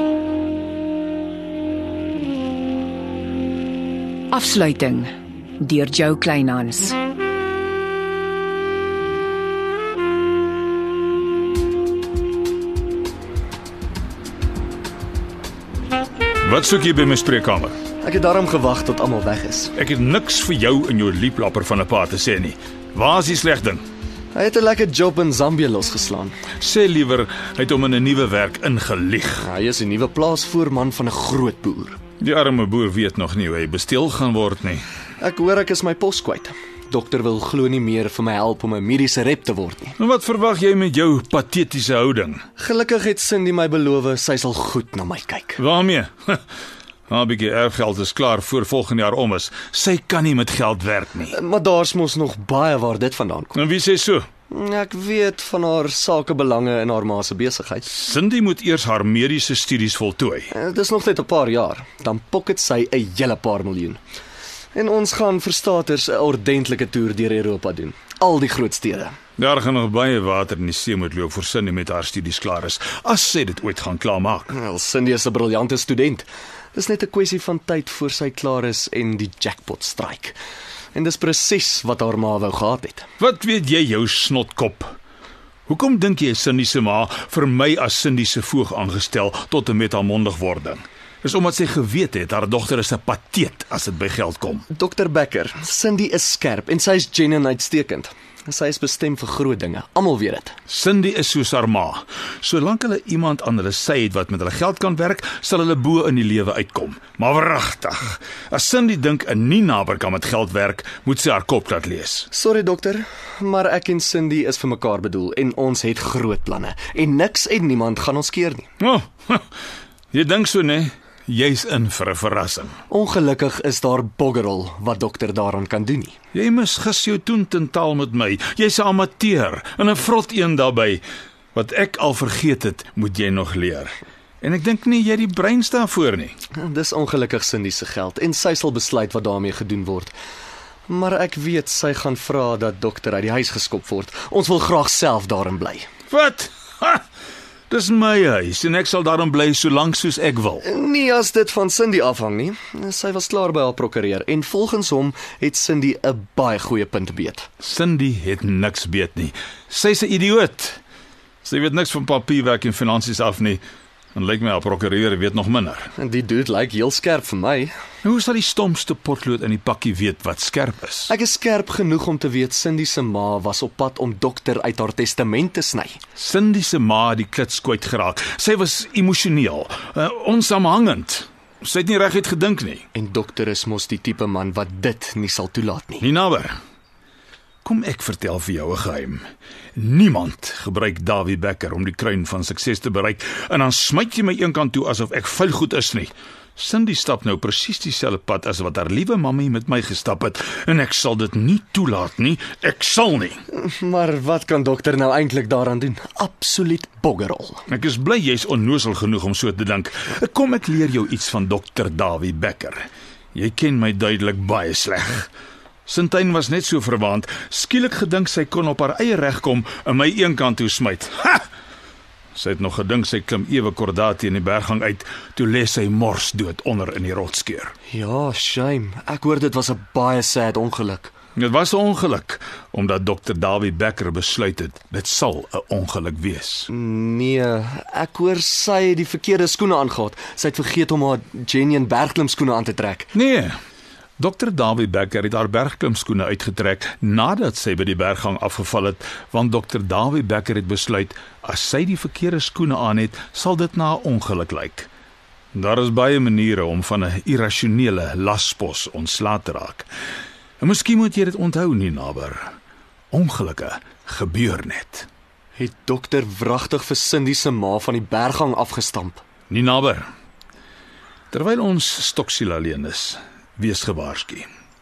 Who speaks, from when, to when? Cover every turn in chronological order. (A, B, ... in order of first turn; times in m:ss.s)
0:04.3-0:07.0 A
0:16.4-0:17.8 B
0:18.0-0:19.7 C
0:19.8-0:23.8 B
0:24.3-0:26.4 C
0:26.6-0:29.4 B
0:29.4-0:32.0 C
0:32.2-0:34.8 B
0:35.2-0:39.9 C
0:40.0-0:42.4 B
0:42.6-0:45.6 C
0:45.6-0:46.4 B
0:47.1-0:51.3 B
0:51.3-0:53.5 C
0:53.5-0:54.2 B
0:54.5-0:57.9 C
0:57.9-1:00.5 B
1:00.5-1:04.0 C
1:04.7-1:09.1 C
1:09.4-1:14.5 B
1:14.5-1:20.4 C
1:20.9-1:23.1 C
1:23.2-1:24.9 B
1:25.7-1:34.6 B
1:34.7-1:40.5 C
1:40.7-1:52.3 B
1:52.3-1:58.7 C
1:58.8-1:59.4 B
2:00.1-2:02.8 B
2:02.9-2:06.1 C
2:06.3-2:11.0 B
2:11.5-2:16.4 B
2:16.6-2:20.1 C
2:20.9-2:25.9 C
2:26.1-2:27.0 B
2:27.7-2:30.6 B
2:30.6-2:37.5 C
2:37.6-2:40.8 B
2:41.4-2:43.6 B
2:44.1-2:45.9 B
2:46.0-2:47.7 C
2:48.0-2:51.1 B
2:51.1-2:56.0 C
2:56.2-3:02.8 B
3:02.9-3:06.0 C
3:06.0-3:06.6 B
3:07.6-3:09.2 B
3:09.8-3:23.4 B
3:23.5-3:27.6 C
3:27.7-3:35.3 B
3:35.9-3:41.4 B
3:42.3-3:47.7 B
3:47.9-3:51.1 C
3:51.4-3:56.7 B
3:56.7-4:03.1 C
4:03.1-4:03.5 B
4:04.2-4:14.9 B
4:15.5-4:19.9 B
4:20.6-4:22.4 B
4:23.1-4:25.1 B
4:25.6-4:29.2 C
4:29.5-4:30.1 B
4:31.3-4:34.5 B